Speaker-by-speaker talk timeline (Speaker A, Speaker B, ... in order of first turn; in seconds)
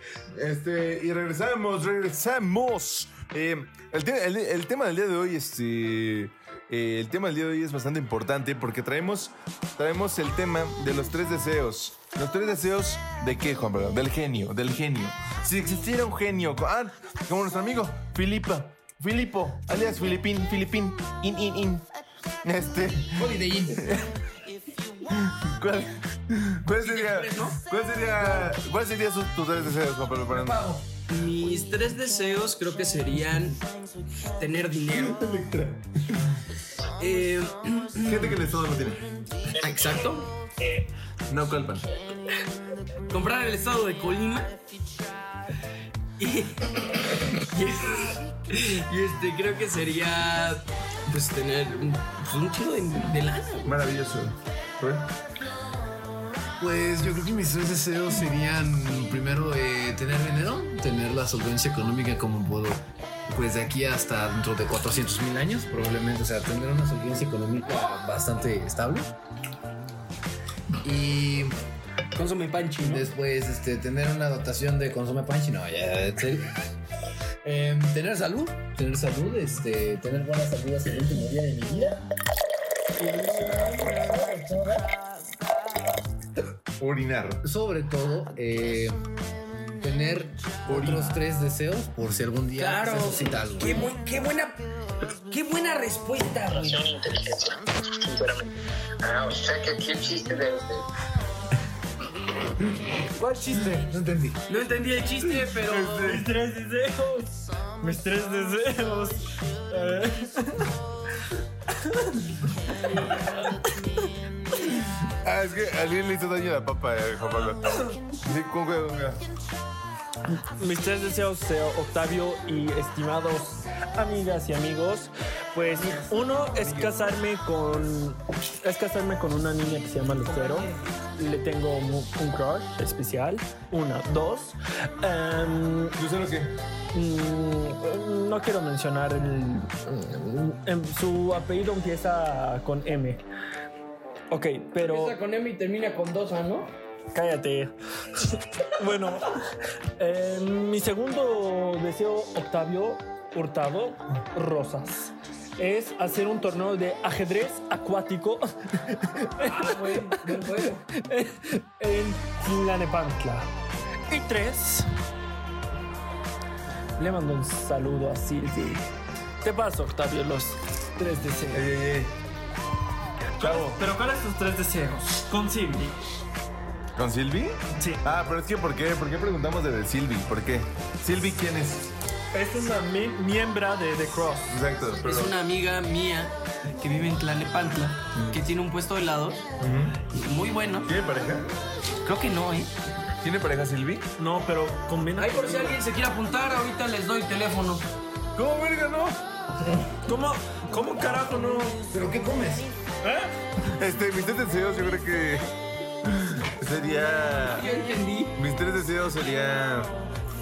Speaker A: 0.3-21.9, 22.4-24.2, 25.0-30.6, 34.9-35.9, 38.0-39.0, 41.3-41.9, 53.6-55.1, 86.8-87.4, 90.7-91.2, 105.4-106.2, 114.6-119.2, 126.1-127.1, 135.9-136.5, 171.5-172.1, 173.4-173.8, 176.9-181.9, 184.5-185.3, 188.1-188.4, 189.6-190.0, 190.8-191.5, 193.2-194.1, 198.3-199.2, 203.7-205.5, 206.0-207.7, 208.3-209.9
Speaker B: 23.1-23.9, 30.3-30.8, 56.6-69.1, 70.8-71.5, 72.8-76.6, 77.4-82.0, 83.3-84.8, 87.4-89.0, 89.8-93.9, 103.2-104.4, 130.2-130.7, 201.9-202.7
Speaker C: 26.8-27.6, 31.1-33.6, 34.3-35.3, 36.9-38.4, 39.6-40.3, 43.1-44.6, 46.2-53.9, 72.1-73.1, 92.5-97.0, 103.4-103.7, 104.5-106.2, 144.8-146.7, 159.4-160.9, 185.0-189.4, 190.1-190.9, 192.0-192.7, 195.2-197.9, 207.3-208.4
Speaker D: 97.0-98.4, 99.0-100.8
Speaker E: 106.0-110.7, 120.4-135.9, 136.9-143.2, 144.3-145.2, 147.1-149.3, 150.0-160.4, 160.9-163.5, 164.1-164.9, 167.0-168.9, 169.4-171.7, 173.4-175.9, 177.7-178.0, 182.3-184.6, 194.2-195.8, 200.0-201.8, 203.0-203.3